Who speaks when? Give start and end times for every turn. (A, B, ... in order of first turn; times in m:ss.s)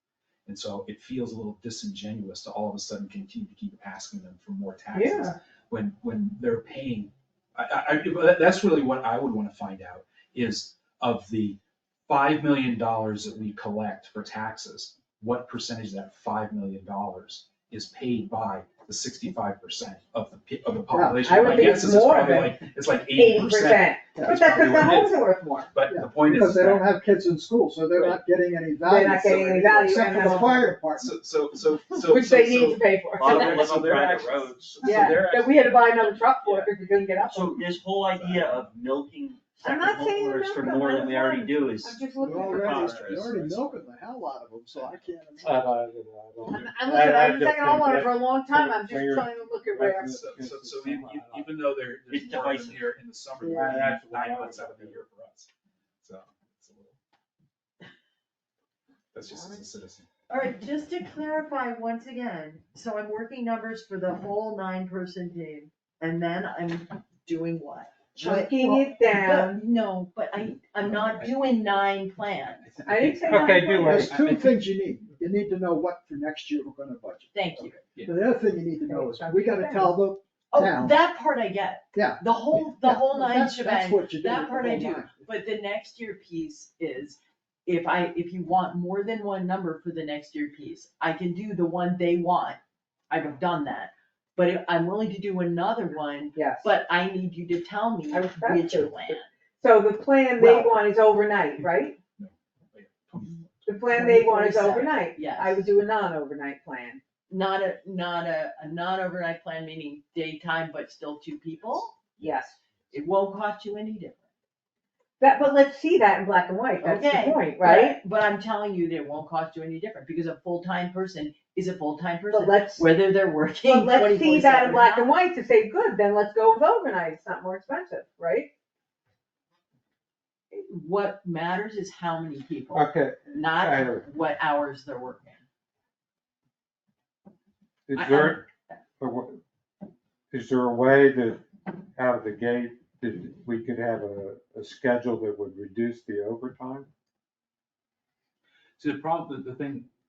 0:00.4-0:26.9 A
0:04.9-0:05.3 B
0:20.9-0:22.4 C
0:21.2-0:25.7 B
0:24.1-0:24.5 C
0:25.9-0:31.1 C
0:28.8-0:30.8 B
0:30.9-0:36.0 A
0:32.0-0:33.6 B
0:33.2-0:35.2 D
0:34.8-0:37.8 B
0:36.2-0:43.6 D
0:37.9-0:38.7 A
0:39.6-0:42.8 B
0:42.2-0:45.7 C
0:42.8-0:43.7 A
0:45.4-0:51.5 E
0:46.4-0:50.1 B
0:50.0-0:55.5 A
0:52.1-0:52.8 D
0:53.4-0:55.0 E
0:56.0-0:57.0 A
0:59.1-1:00.0 A
1:00.3-1:12.6 F
1:08.1-1:09.6 B
1:10.8-1:11.4 A
1:12.5-1:14.6 A
1:12.8-1:14.0 B
1:13.2-1:14.2 E
1:13.7-1:21.0 C
1:17.3-1:17.9 F
1:17.9-1:18.2 A
1:18.8-1:20.0 B
1:20.5-1:39.2 F
1:21.9-1:25.2 C
1:36.3-1:36.7 B
1:38.1-1:42.0 B
1:40.4-1:40.8 F
1:42.2-1:43.9 A
1:43.7-1:47.0 B
1:43.9-1:45.7 F
1:47.3-1:52.1 F
1:51.7-1:52.4 A
1:52.2-1:52.6 B
1:52.9-1:54.2 F
1:55.2-1:58.0 B
1:56.8-2:05.1 F
2:02.3-2:02.9 B
2:03.6-2:08.5 B
2:10.5-2:15.4 F
2:12.7-2:14.0 E
2:17.9-2:18.4 E
2:17.9-2:18.4 F
2:19.0-2:19.4 E
2:20.3-2:26.9 E
2:28.8-2:29.9 A